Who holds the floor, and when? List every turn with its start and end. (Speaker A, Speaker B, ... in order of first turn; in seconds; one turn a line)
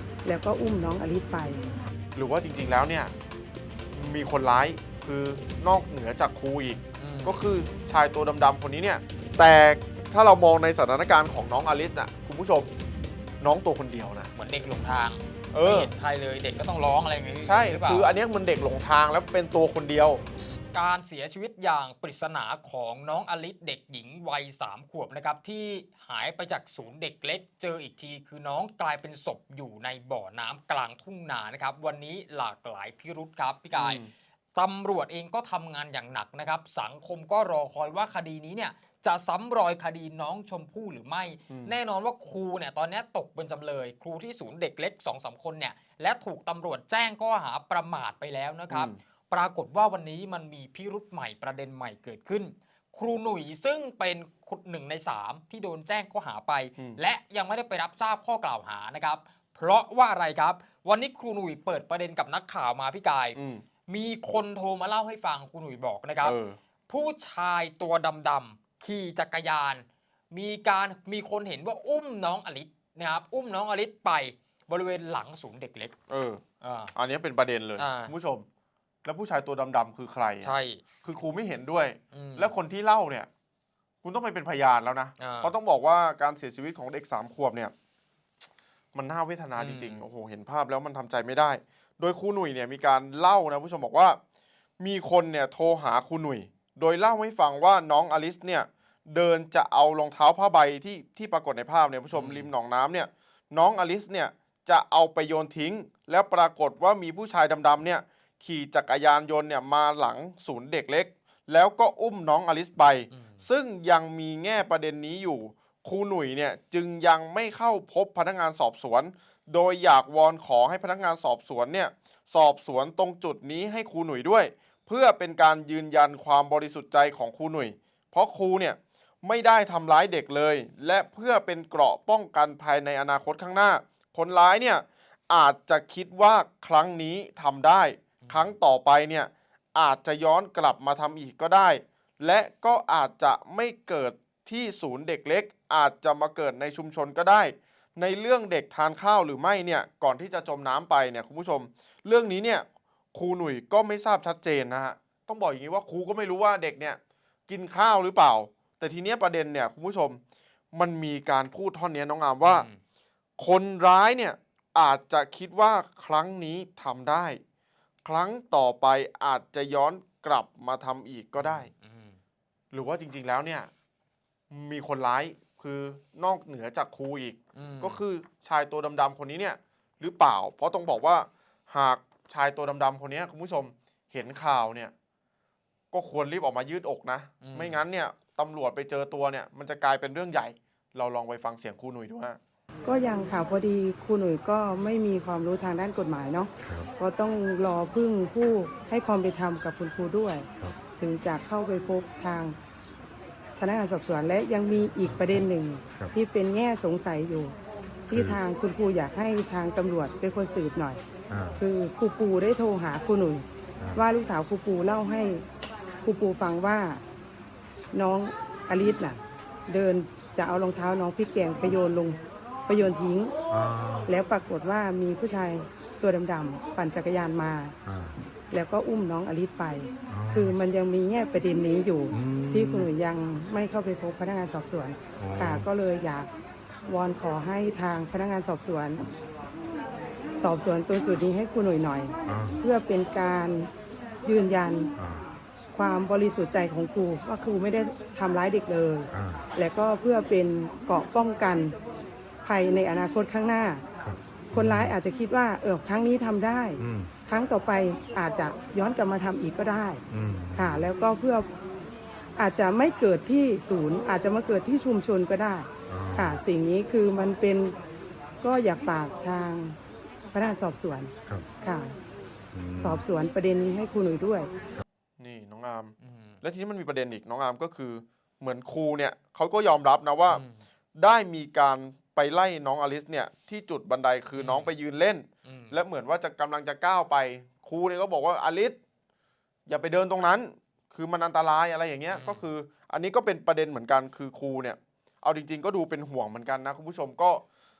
Speaker A: 0.2-1.6
Speaker B: 2.1-3.1
Speaker B: 3.9-12.7
Speaker C: 7.0-7.4
Speaker B: 13.4-14.3
Speaker C: 14.3-18.1
Speaker B: 15.5-15.9
Speaker B: 17.4-20.2
Speaker C: 20.7-34.0
Speaker B: 33.7-34.1
Speaker C: 34.5-66.4
Speaker B: 41.5-41.8
Speaker B: 48.7-49.0
Speaker B: 63.3-63.6
Speaker B: 66.2-66.6
Speaker C: 66.9-75.9
Speaker B: 76.1-76.4
Speaker C: 76.6-76.9
Speaker B: 76.9-78.5
Speaker C: 77.8-78.1
Speaker B: 79.0-83.3
Speaker C: 80.4-80.8
Speaker C: 82.1-82.5
Speaker B: 84.0-87.7
Speaker C: 85.2-85.5
Speaker B: 88.9-94.2
Speaker C: 89.6-90.0
Speaker B: 94.8-160.2
Speaker C: 102.1-102.5
Speaker C: 113.1-113.4
Speaker C: 138.2-138.6
Speaker B: 160.7-162.7
Speaker C: 162.4-162.8
Speaker B: 163.4-167.4
Speaker B: 168.0-171.7
Speaker C: 171.3-172.2
Speaker B: 172.7-173.7
Speaker B: 174.5-184.9
Speaker C: 177.5-178.0
Speaker B: 185.9-192.4
Speaker C: 187.4-187.8
Speaker A: 192.8-202.6
Speaker D: 196.6-196.9
Speaker A: 203.6-207.5
Speaker D: 205.0-205.4
Speaker D: 208.1-208.4
Speaker A: 208.1-211.0
Speaker D: 211.3-211.6
Speaker A: 211.6-215.4
Speaker A: 216.0-217.0
Speaker A: 217.9-223.3
Speaker D: 223.5-224.1
Speaker A: 224.1-227.8
Speaker D: 227.8-228.1
Speaker A: 228.5-236.3
Speaker D: 230.1-230.6
Speaker D: 232.1-232.9
Speaker D: 235.2-235.7
Speaker A: 236.8-239.0
Speaker A: 240.4-243.7
Speaker D: 242.2-242.6
Speaker A: 244.2-244.9
Speaker D: 244.9-245.2
Speaker A: 245.7-251.8
Speaker D: 249.1-249.4
Speaker A: 252.4-253.8
Speaker D: 254.0-254.9
Speaker A: 254.5-260.0
Speaker D: 256.8-257.1
Speaker D: 260.1-260.9
Speaker A: 260.5-261.5
Speaker A: 262.4-267.8
Speaker D: 265.9-266.4
Speaker A: 268.4-269.8
Speaker A: 270.3-271.9
Speaker D: 272.5-273.0
Speaker A: 272.8-274.5
Speaker B: 275.2-280.4
Speaker C: 276.0-276.4
Speaker C: 280.3-280.6
Speaker B: 280.9-288.8
Speaker C: 284.3-284.7
Speaker C: 285.4-285.8
Speaker B: 289.7-297.4
Speaker C: 292.1-292.4